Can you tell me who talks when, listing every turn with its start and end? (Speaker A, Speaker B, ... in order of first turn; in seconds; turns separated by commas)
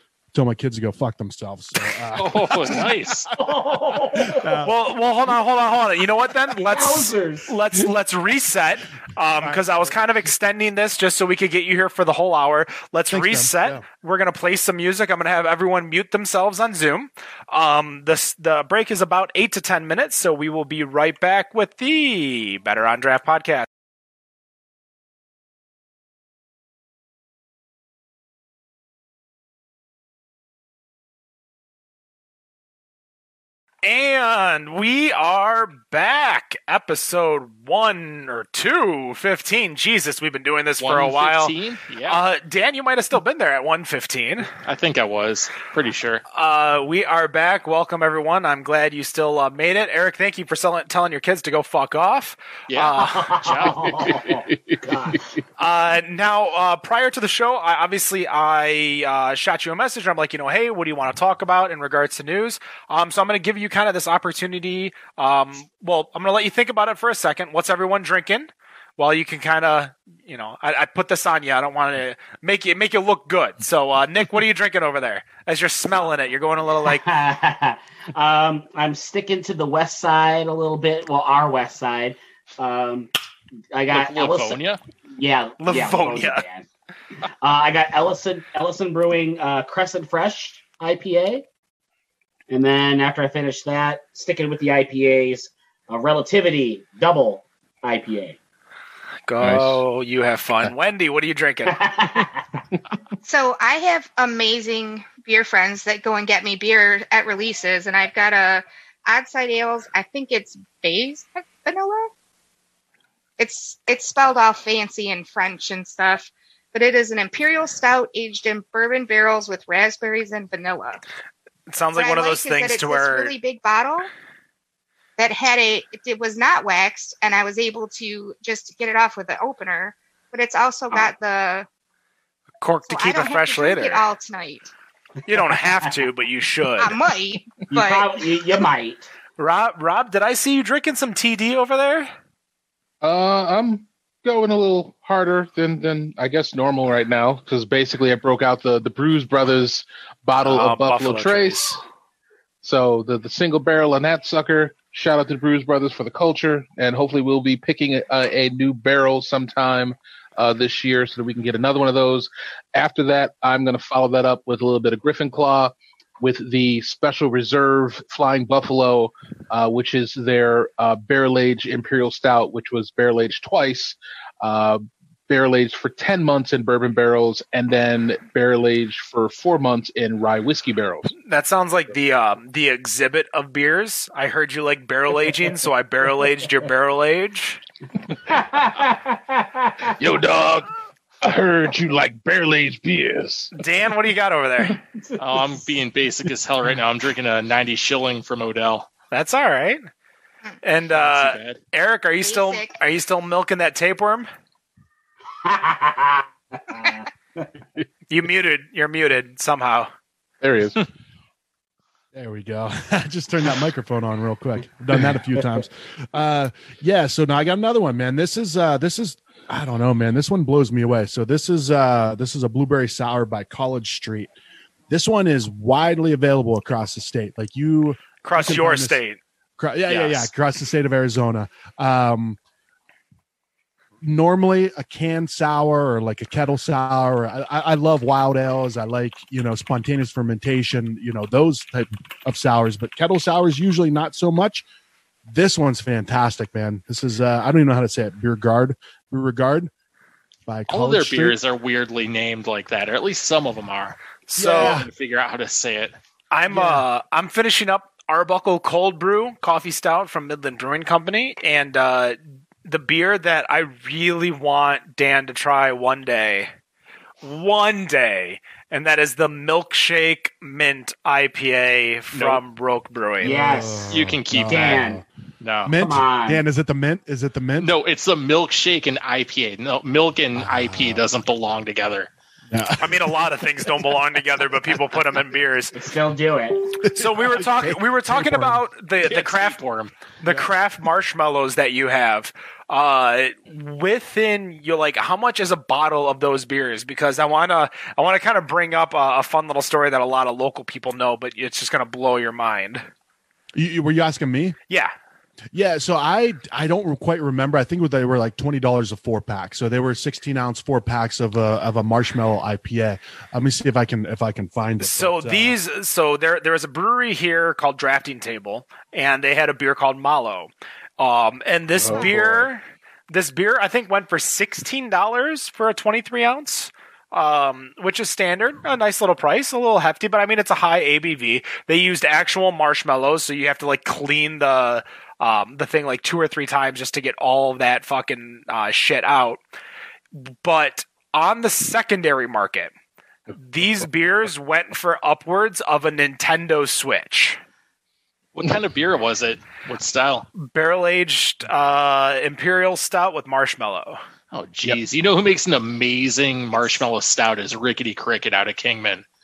Speaker A: 0.3-2.9, Speaker B: 2.1-3.3, Speaker C: 3.3-4.5, Speaker A: 4.2-4.8, Speaker D: 4.6-23.6, Speaker C: 6.7-7.5, Speaker A: 9.4-9.9, Speaker A: 13.1-13.8, Speaker D: 33.8-41.5, Speaker B: 40.8-42.2, Speaker D: 42.0-44.5, Speaker B: 44.6-46.2, Speaker D: 46.3-53.4, Speaker B: 52.7-54.1, Speaker C: 52.9-55.3, Speaker E: 53.9-54.8, Speaker D: 55.6-77.0, Speaker C: 76.8-83.1, Speaker C: 83.7-84.6, Speaker B: 83.9-84.8, Speaker C: 85.1-86.7, Speaker D: 85.6-86.4, Speaker C: 87.4-91.4, Speaker C: 92.5-98.4, Speaker D: 99.3-101.8, Speaker E: 99.4-99.8, Speaker C: 101.7-102.6, Speaker F: 103.2-112.1, Speaker F: 113.4-121.0, Speaker D: 121.7-123.3, Speaker F: 121.9-124.1, Speaker F: 125.2-131.7, Speaker D: 132.6-134.1, Speaker F: 132.9-134.7, Speaker D: 135.3-137.0, Speaker F: 136.8-138.1, Speaker C: 137.7-139.1, Speaker D: 139.4-142.1, Speaker E: 143.0-151.8, Speaker D: 150.4-151.8, Speaker E: 152.6-181.1, Speaker D: 181.2-187.6, Speaker C: 188.2-189.9, Speaker E: 189.9-190.7, Speaker E: 191.2-193.5, Speaker D: 193.6-194.8, Speaker C: 195.0-195.5, Speaker B: 195.2-198.9, Speaker D: 199.1-199.8, Speaker D: 200.6-204.3, Speaker B: 200.9-201.6, Speaker F: 202.2-202.8, Speaker C: 205.4-207.5, Speaker D: 208.1-209.9, Speaker E: 210.4-210.8, Speaker A: 212.1-224.3, Speaker A: 224.9-229.0, Speaker D: 228.2-229.2, Speaker A: 229.6-232.4, Speaker D: 229.9-230.3, Speaker A: 234.0-244.6, Speaker A: 245.2-249.7, Speaker A: 250.5-251.4, Speaker B: 250.7-255.9, Speaker D: 254.3-254.8, Speaker A: 254.4-254.9, Speaker D: 256.3-266.5, Speaker A: 256.5-256.8, Speaker D: 267.2-273.6, Speaker B: 272.1-272.4, Speaker C: 273.2-275.0, Speaker A: 273.3-275.0, Speaker B: 273.9-275.8, Speaker A: 275.6-277.7, Speaker C: 275.8-276.4, Speaker B: 277.6-282.1, Speaker A: 280.4-281.0, Speaker A: 282.5-283.1, Speaker D: 282.8-285.7, Speaker C: 285.7-286.7, Speaker A: 286.7-288.6, Speaker D: 286.9-289.6, Speaker B: 289.0-289.9, Speaker D: 290.2-302.9, Speaker A: 290.2-290.5, Speaker A: 303.5-304.6, Speaker A: 305.5-315.6, Speaker D: 314.8-339.4, Speaker E: 321.8-322.5, Speaker D: 340.1-342.7, Speaker D: 343.4-347.4, Speaker B: 348.3-350.3, Speaker D: 350.4-354.0, Speaker B: 354.3-359.0